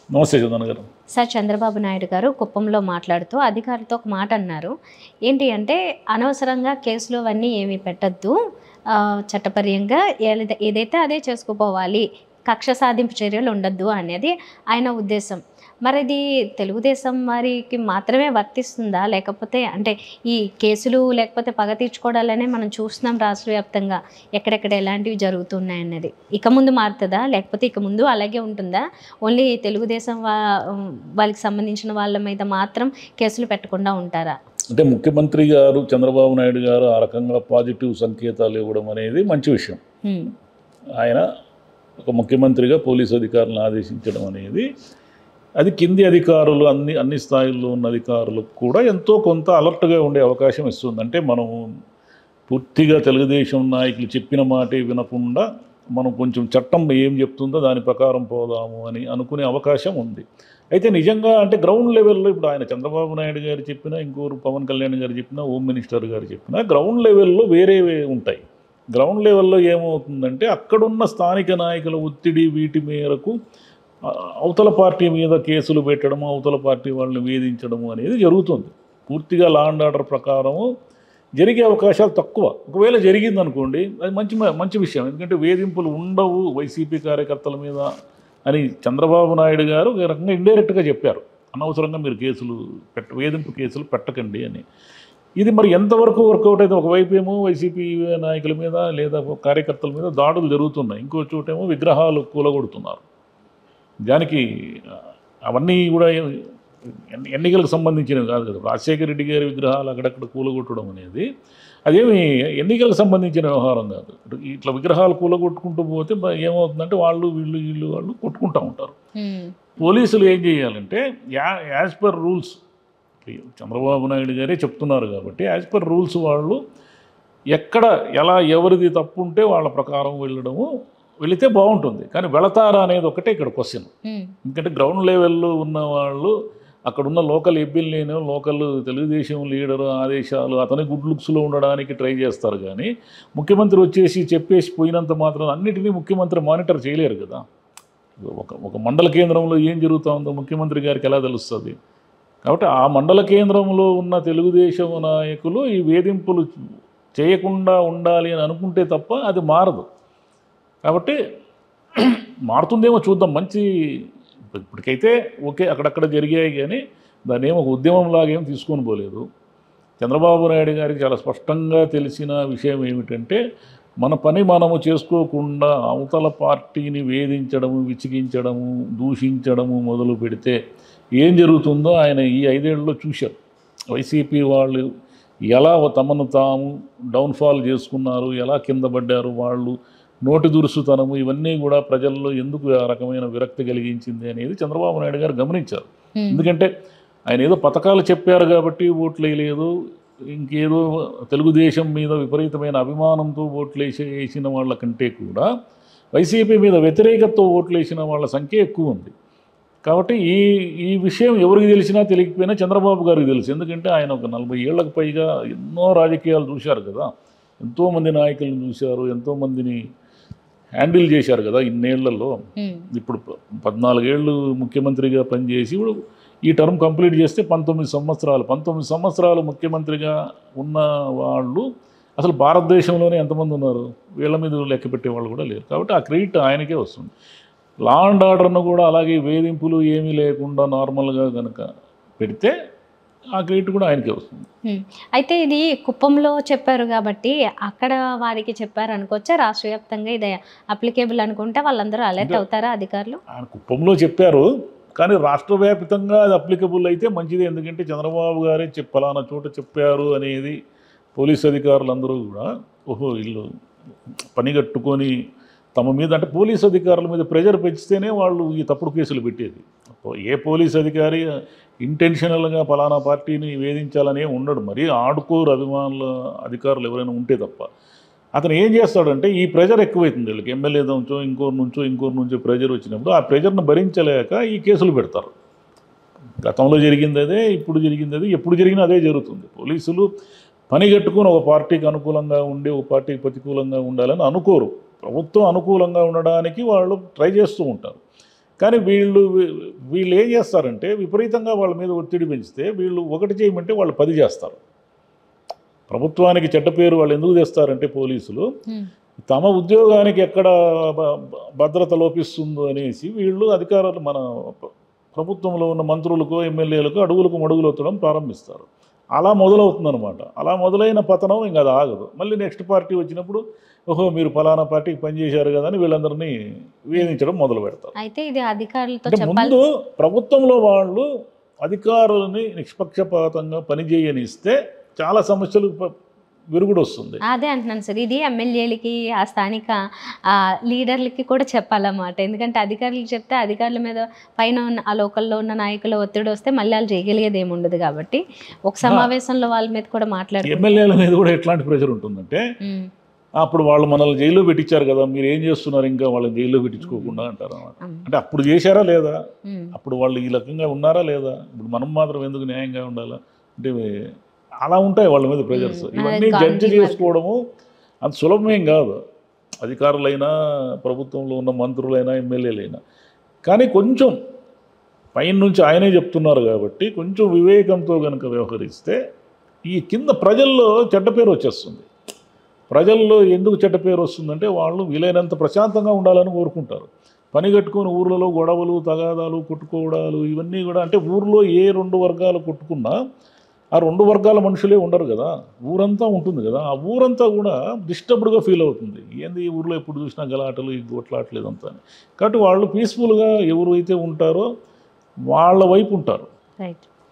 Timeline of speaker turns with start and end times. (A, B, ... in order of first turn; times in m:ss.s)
0:00.1-0:00.9 A
0:01.2-0:04.7 B
0:05.3-0:08.3 B
0:08.9-0:34.4 B
0:34.7-0:39.8 A
0:40.0-0:40.3 B
0:41.0-0:41.2 A
0:42.0-0:44.6 A
0:45.6-0:51.6 A
0:52.5-1:08.4 A
1:08.9-1:13.4 A
1:14.1-1:20.7 A
1:21.4-1:27.9 A
1:28.5-1:34.6 A
1:35.4-1:43.0 A
1:44.1-1:46.2 A
1:47.1-1:51.2 A
1:51.8-1:58.9 A
1:59.2-1:59.6 B
1:59.8-2:02.6 A
2:03.2-2:06.6 A
2:07.5-2:10.7 A
2:11.2-2:13.9 A
2:14.1-2:14.3 B
2:14.4-2:16.3 A
2:16.9-2:27.4 A
2:28.2-2:31.8 A
2:32.4-2:36.5 A
2:37.2-2:39.8 A
2:40.8-2:41.2 A
2:42.0-2:49.2 A
2:50.0-2:53.4 A
2:54.0-3:00.6 A
3:01.2-3:03.4 A
3:03.9-3:04.8 A
3:05.5-3:16.7 A
3:16.2-3:16.4 B
3:17.3-3:19.7 A
3:20.3-3:25.5 A
3:26.1-3:29.1 A
3:29.8-3:39.8 A
3:40.8-3:42.4 A
3:42.6-3:42.9 B
3:42.9-3:46.0 A
3:46.5-3:51.7 A
3:52.2-3:57.1 A
3:57.8-4:01.7 A
4:02.2-4:02.5 A
4:03.4-4:04.4 A
4:04.7-4:13.2 B
4:13.3-4:20.6 A
4:21.2-4:23.5 A
4:24.3-4:25.1 A
4:25.8-4:31.3 A
4:31.8-4:37.7 A
4:38.4-4:45.3 A
4:46.4-4:50.1 A
4:50.7-4:58.0 A
4:58.6-5:04.6 A
5:05.9-5:08.5 A
5:09.2-5:26.3 A
5:26.8-5:27.9 A
5:28.0-5:29.5 B
5:29.1-5:31.1 A
5:31.6-5:35.9 A
5:36.5-5:37.2 A
5:37.3-5:50.8 B
5:48.8-5:49.1 A
5:50.4-5:52.4 A
5:52.6-5:52.9 B
5:53.4-5:59.2 A
5:56.8-5:57.2 B
5:59.5-5:59.7 B
5:59.7-6:03.9 A
6:04.6-6:07.4 A
6:05.5-6:07.1 B
6:08.0-6:09.0 A
6:09.6-6:12.8 A
6:13.4-6:14.2 A
6:15.2-6:19.0 A
6:19.7-6:21.9 A
6:22.7-6:33.0 A
6:33.8-6:44.5 A
6:45.3-6:46.3 A
6:46.6-6:46.8 B